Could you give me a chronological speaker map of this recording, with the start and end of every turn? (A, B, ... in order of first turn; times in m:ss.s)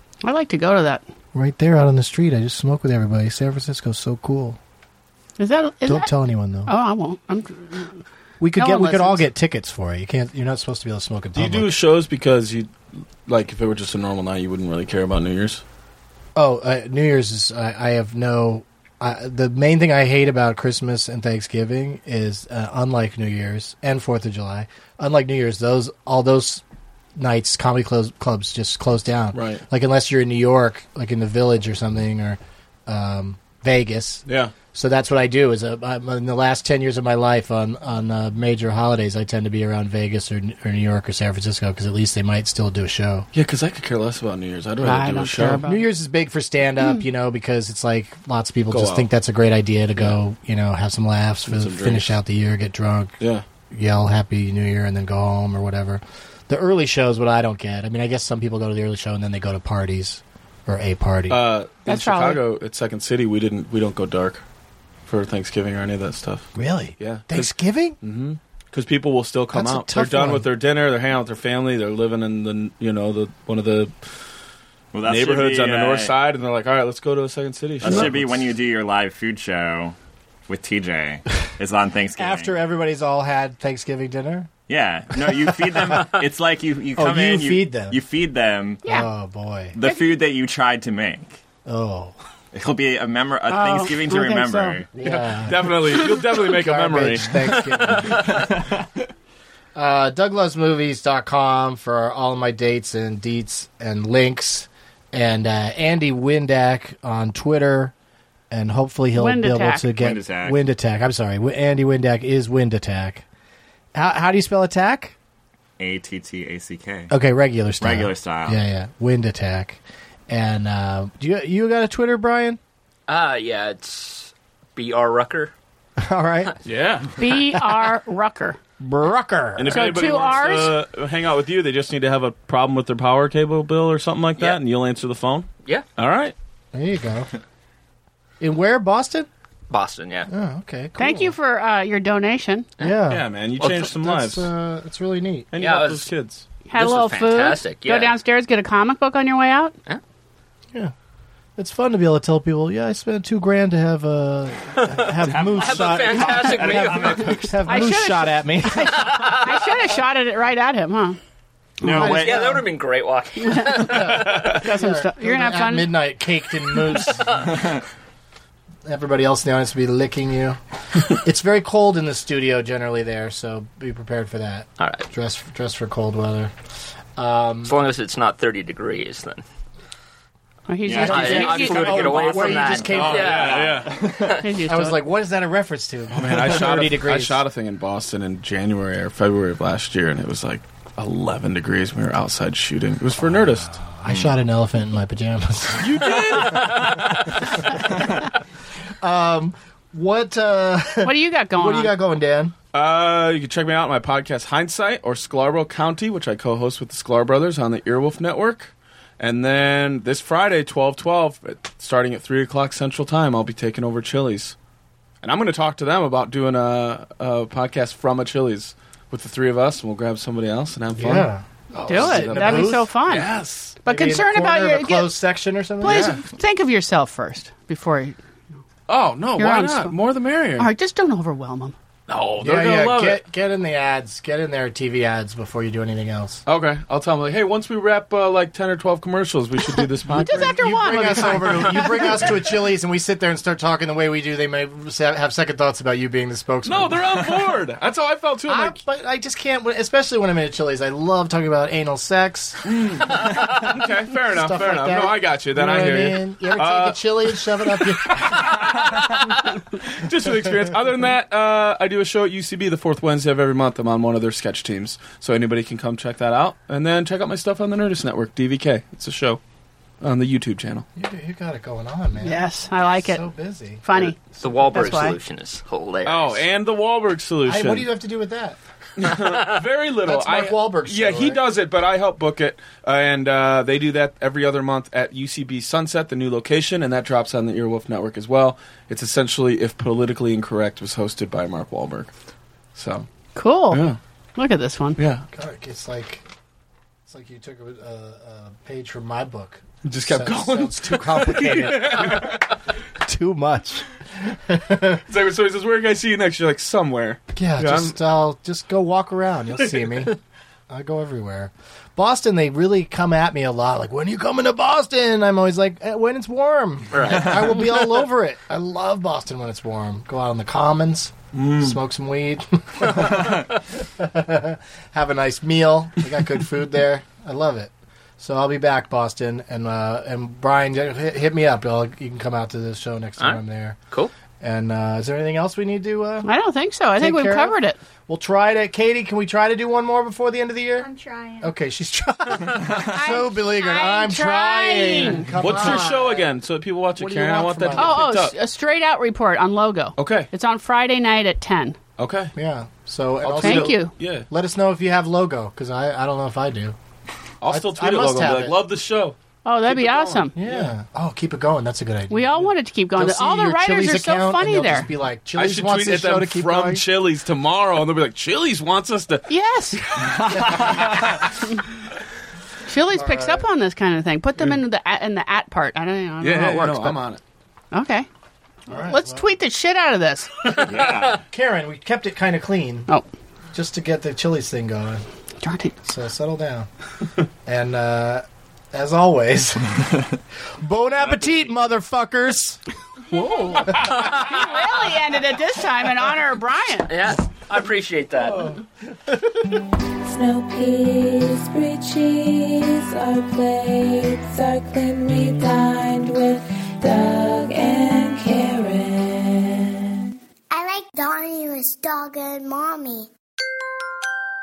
0:00.2-0:01.0 A
0:01.3-0:04.6 B
0:05.4-0:06.1 A
0:05.9-0:06.7 B
0:06.7-0:08.0 A
0:08.4-0:11.7 B
0:08.6-0:09.3 A
0:11.3-0:15.6 C
0:16.4-0:26.6 B
0:27.2-0:43.3 B
0:29.3-0:29.6 C
0:34.3-0:34.5 C
0:43.3-0:45.6 C
0:44.8-0:45.9 A
0:45.6-0:53.2 B
0:48.7-0:49.1 C
0:51.4-0:52.1 C
0:53.7-1:01.5 B
1:01.3-1:04.4 C
1:01.9-1:02.4 A
1:05.1-1:13.9 C
1:06.6-1:08.0 B
1:09.5-1:10.5 B
1:14.9-1:16.1 D
1:15.0-1:18.5 C
1:17.8-1:20.0 D
1:17.8-1:18.1 B
1:20.5-1:22.6 D
1:22.2-1:24.5 B
1:24.7-1:28.8 D
1:25.2-1:26.2 B
1:27.0-1:28.0 B
1:28.8-1:29.8 B
1:29.7-1:31.4 D
1:31.6-1:32.2 B
1:32.5-1:34.9 D
1:33.5-1:34.8 A
1:35.0-1:38.5 B
1:35.0-1:37.6 C
1:37.9-1:38.2 E
1:38.3-1:38.8 D
1:39.8-1:47.9 B
1:48.5-1:53.2 B
1:49.2-1:49.9 A
1:50.0-1:50.6 D
1:54.0-1:55.2 B
1:55.8-1:57.2 D
1:57.1-2:02.6 B
1:57.8-1:58.6 D
2:03.1-2:05.5 E
2:06.0-2:06.6 B
2:06.6-2:07.2 C
2:07.2-2:08.6 A
2:07.5-2:07.8 B
2:08.8-2:10.3 B
2:09.6-2:16.4 C
2:09.7-2:10.8 A
2:16.7-2:17.3 B
2:18.4-2:19.3 B
2:19.7-2:20.3 E
2:20.3-2:21.3 B
2:21.0-2:22.7 A
2:22.8-2:23.3 B
2:23.1-2:24.5 C
2:23.6-2:24.0 E
2:24.0-2:25.5 B
2:25.5-2:26.5 C
2:25.6-2:26.1 E
2:26.7-2:29.7 A
2:26.7-2:28.2 E
2:31.6-2:39.4 B
2:34.8-2:37.5 E
2:35.2-2:37.8 D
2:37.7-2:41.2 A
2:39.0-2:39.7 E
2:41.8-2:42.6 D
2:41.9-2:42.7 B
2:42.0-2:44.6 E
2:43.4-2:46.0 A
2:43.8-2:47.6 B
2:46.9-2:47.6 E
2:48.8-2:56.5 B
2:54.8-2:55.1 E
2:57.2-2:57.8 B
2:57.6-2:59.4 E
3:00.7-3:02.5 A
3:00.9-3:01.6 D
3:00.9-3:03.6 B
3:01.0-3:04.4 E
3:02.8-3:04.0 C
3:02.8-3:04.4 D
3:04.4-3:05.0 A
3:04.6-3:07.4 B
3:06.1-3:13.8 C
3:13.8-3:18.3 B
3:14.1-3:14.3 D
3:15.8-3:17.2 C
3:19.0-3:22.6 B
3:21.0-3:22.0 A
3:22.7-3:34.6 C
3:35.2-3:43.8 C
3:40.9-3:42.9 B
3:41.9-3:45.1 A
3:43.9-3:46.2 B
3:45.8-3:48.2 A
3:45.8-3:46.2 C
3:48.9-3:50.7 C
3:49.4-3:49.9 A
3:50.6-3:51.8 A
3:52.1-3:53.2 C
3:52.4-3:56.4 B
3:56.5-4:00.6 C
4:00.1-4:07.6 B
4:00.1-4:02.3 A
4:06.6-4:08.8 C
4:08.5-4:13.5 B
4:12.7-4:29.4 C
4:14.3-4:18.8 B
4:30.0-4:30.9 C
4:31.0-4:33.9 B
4:32.2-4:33.2 A
4:33.8-4:34.2 A
4:34.4-4:36.5 E
4:34.6-4:34.9 C
4:34.7-4:35.2 A
4:36.0-4:37.9 C
4:37.4-4:38.6 B
4:39.0-4:52.1 C
4:40.0-4:41.4 B
4:52.8-4:53.1 C
4:53.4-4:55.0 A
4:53.7-4:54.0 C
4:55.0-4:55.3 C
4:55.3-4:56.3 B
4:57.1-5:02.4 B
4:59.8-5:02.5 C
5:03.0-5:05.0 B
5:05.1-5:07.9 C
5:07.3-5:10.2 B
5:10.7-5:33.8 B
5:16.9-5:18.0 E
5:33.2-5:34.1 E
5:34.4-5:36.3 B
5:36.2-5:37.8 A
5:37.0-5:37.6 B
5:38.1-5:40.9 B
5:40.8-5:41.6 F
5:41.4-5:46.4 B
5:42.8-5:45.3 A
5:45.3-5:48.4 C
5:47.0-5:48.1 B
5:47.7-5:51.8 A
5:50.0-5:50.3 C
5:52.0-5:52.3 C
5:52.4-5:56.8 B
5:53.2-5:54.3 C
5:53.4-5:53.9 A
5:57.4-6:00.7 C
5:57.5-5:58.6 B
5:59.4-6:00.3 A
6:00.4-6:06.8 B
6:02.1-6:04.9 A
6:05.4-6:09.3 C
6:09.3-6:10.4 A
6:10.3-6:11.1 B
6:10.4-6:11.0 D
6:12.7-6:17.0 A
6:12.9-6:13.5 B
6:16.2-6:17.2 C
6:17.7-6:18.1 A
6:18.7-6:19.3 B
6:18.7-6:20.3 A
6:20.6-6:21.2 D
6:20.6-6:21.2 E
6:21.3-6:22.9 B
6:23.5-6:25.0 B
6:25.4-6:25.8 A
6:25.8-6:26.7 B
6:27.5-6:30.0 B
6:30.6-6:32.6 B
6:33.1-6:36.9 A
6:33.8-6:34.6 E
6:36.9-6:38.6 E
6:39.1-6:39.5 B
6:40.0-6:50.1 G
6:50.5-6:53.1 F